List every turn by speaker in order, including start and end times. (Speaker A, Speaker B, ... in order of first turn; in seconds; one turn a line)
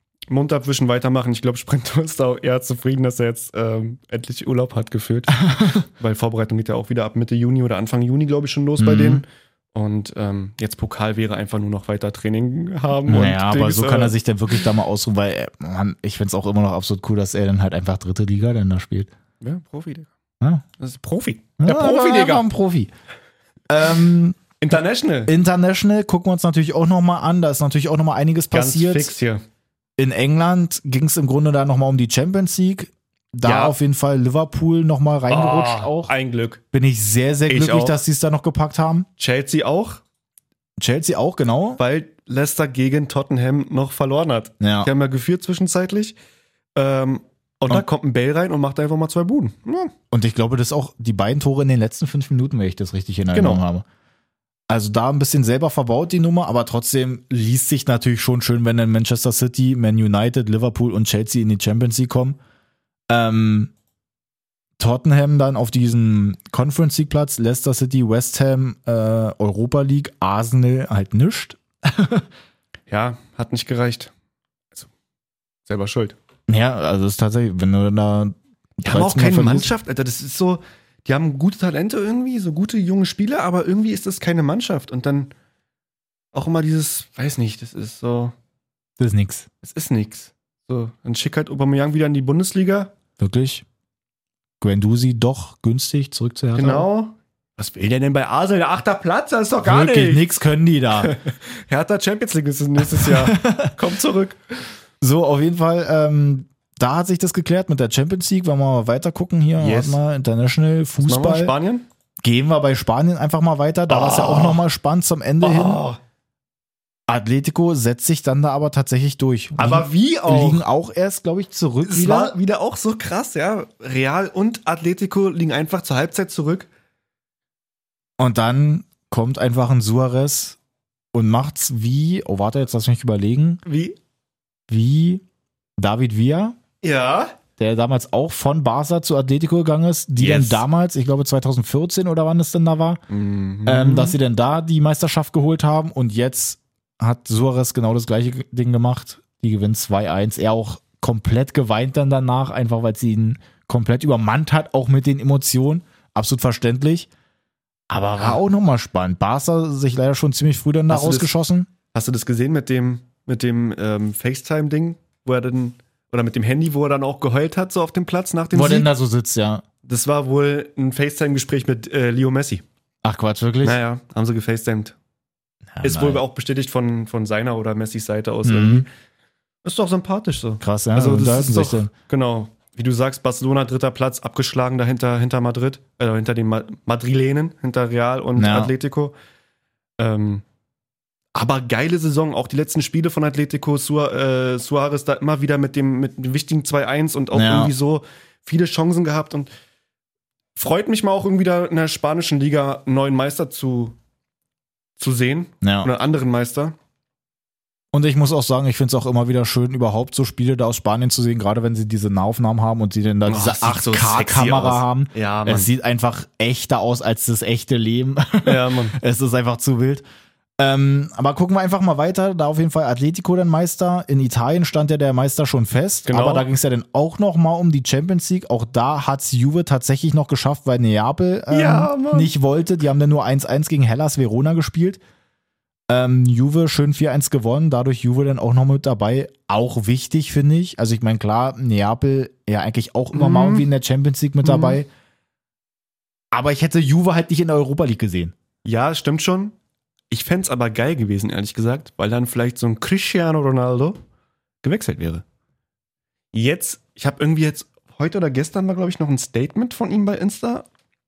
Speaker A: 0.3-14.2
Speaker B: 5.5-5.8
Speaker B: 8.8-9.2
Speaker B: 13.1-19.1
Speaker A: 19.4-20.1
Speaker A: 20.8-22.4
Speaker B: 21.6-22.9
Speaker B: 23.7-24.4
Speaker A: 24.6-25.3
Speaker B: 25.3-29.1
Speaker A: 28.5-29.4
Speaker B: 30.0-36.1
Speaker A: 33.4-33.8
Speaker A: 35.3-36.6
Speaker B: 36.7-39.1
Speaker A: 37.5-38.0
Speaker A: 39.2-40.0
Speaker B: 40.8-41.8
Speaker A: 41.8-46.2
Speaker B: 44.6-44.9
Speaker A: 46.8-49.9
Speaker B: 50.1-53.9
Speaker A: 53.3-53.6
Speaker B: 54.7-62.4
Speaker B: 63.1-63.7
Speaker B: 64.8-72.3
Speaker A: 72.9-74.1
Speaker A: 75.7-76.2
Speaker B: 76.5-79.7
Speaker A: 78.8-85.3
Speaker A: 86.3-88.3
Speaker B: 89.0-89.5
Speaker A: 89.6-92.9
Speaker B: 93.2-93.6
Speaker B: 94.6-96.9
Speaker A: 96.5-100.2
Speaker B: 99.6-101.1
Speaker A: 101.0-104.7
Speaker B: 102.9-103.7
Speaker B: 105.0-111.5
Speaker A: 109.6-110.0
Speaker A: 111.0-111.9
Speaker B: 112.2-115.8
Speaker A: 113.9-114.6
Speaker A: 115.4-116.0
Speaker B: 117.1-122.3
Speaker A: 119.6-120.6
Speaker A: 121.8-126.7
Speaker B: 128.2-130.6
Speaker B: 131.1-133.6
Speaker A: 133.7-134.0
Speaker B: 134.7-135.2
Speaker B: 135.8-136.6
Speaker A: 136.8-137.4
Speaker B: 137.6-143.0
Speaker A: 140.2-140.6
Speaker A: 143.1-144.2
Speaker B: 143.7-157.1
Speaker B: 157.9-161.7
Speaker A: 160.9-161.3
Speaker A: 161.9-168.9
Speaker B: 168.5-169.6
Speaker A: 169.8-172.6
Speaker B: 173.0-173.8
Speaker A: 173.6-175.0
Speaker B: 175.8-176.2
Speaker A: 175.8-178.9
Speaker B: 178.4-178.9
Speaker A: 179.6-189.1
Speaker B: 180.6-181.9
Speaker B: 188.4-188.7
Speaker A: 190.0-190.4
Speaker A: 191.3-199.5
Speaker B: 197.3-197.7
Speaker A: 200.6-204.0
Speaker A: 205.0-206.8
Speaker B: 205.6-205.9
Speaker B: 207.9-220.0
Speaker A: 213.3-215.7
Speaker A: 218.4-219.0
Speaker B: 220.6-235.0
Speaker A: 226.1-226.5
Speaker A: 231.5-232.3
Speaker B: 235.9-244.9
Speaker A: 243.1-243.7
Speaker A: 244.4-244.8
Speaker B: 246.3-248.3
Speaker A: 248.7-249.6
Speaker A: 250.1-254.0
Speaker A: 254.6-255.2
Speaker A: 256.3-260.7